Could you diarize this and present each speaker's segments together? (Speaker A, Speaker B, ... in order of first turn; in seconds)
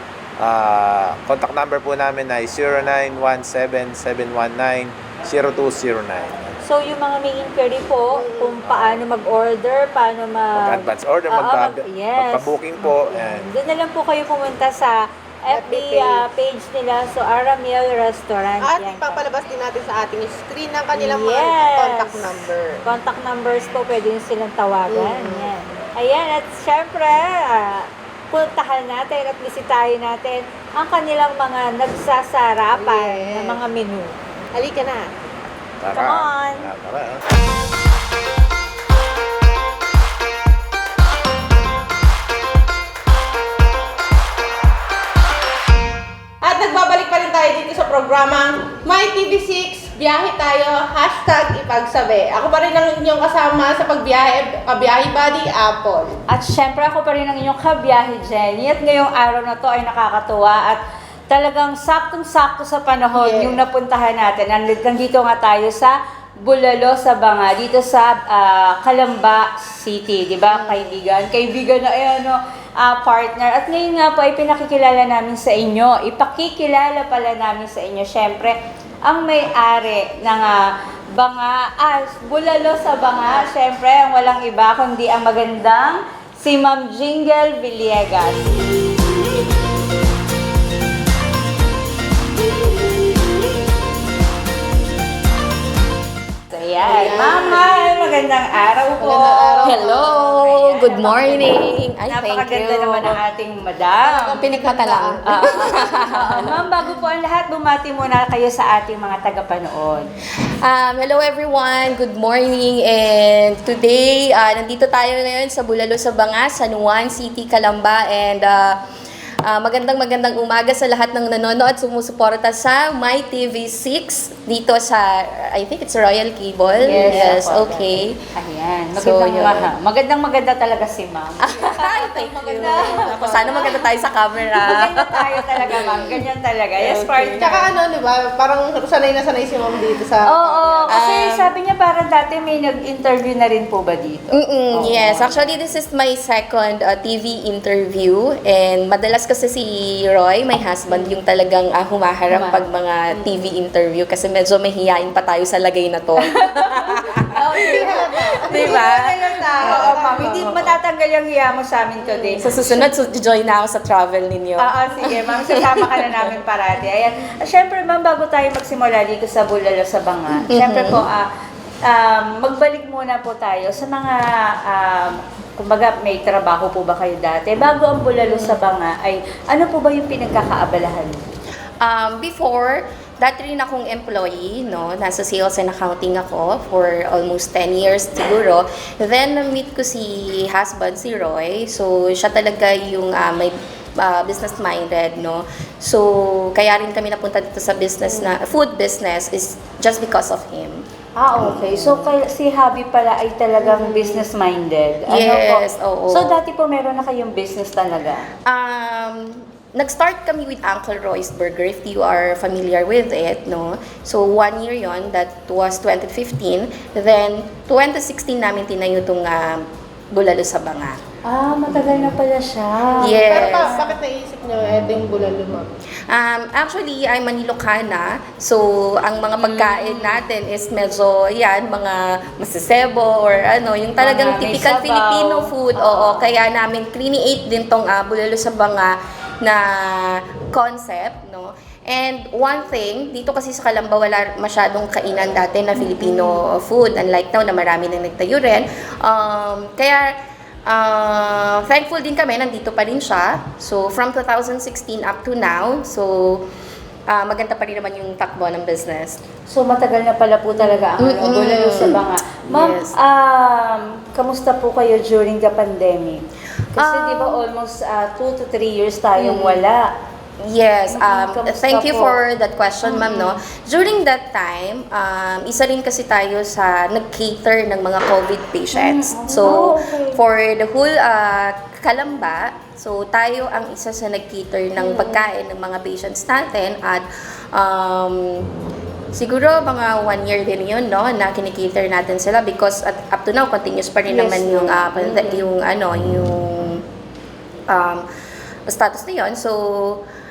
Speaker A: 0.4-6.5, 8.6-9.0, 10.6-13.5, 35.8-37.2
Speaker B: 6.6-19.2, 20.9-22.3, 22.8-34.1, 35.9-36.6, 56.3-88.6, 96.5-104.4, 105.2-110.1, 126.8-133.9, 134.5-137.6, 140.2-145.6, 152.3-153.3, 156.3-162.4, 164.6-171.2, 171.8-181.2, 201.2-208.3, 221.2-223.9, 229.4-230.2, 234.0-236.2, 259.5-266.2, 266.8-269.9, 270.9-272.2, 272.8-273.3, 278.7-280.2, 294.1-295.4
Speaker C: 8.1-8.6, 15.5-16.2, 18.6-22.8, 24.9-25.5, 32.7-33.6, 34.5-35.1, 46.4-56.1, 63.2-63.6, 70.5-70.9, 96.8-97.7, 99.0-100.0, 104.0-106.5, 131.9-133.6, 137.4-141.0, 157.5-158.8, 159.6-160.7, 162.0-162.7, 223.0-225.7
Speaker D: 99.6-103.2, 104.4-106.6, 110.6-118.8, 119.4-128.2, 128.9-129.7, 131.4-137.6, 140.9-141.5, 144.3-160.7, 162.4-166.3, 170.5-171.1, 178.2-178.6, 181.8-202.1, 205.1-206.4, 208.4-221.0, 223.0-223.8, 226.1-256.5, 257.1-259.2, 260.6-262.9, 266.8-267.4, 269.2-269.6, 270.4-288.5, 289.1-296.8, 297.7-298.1, 298.7-300.0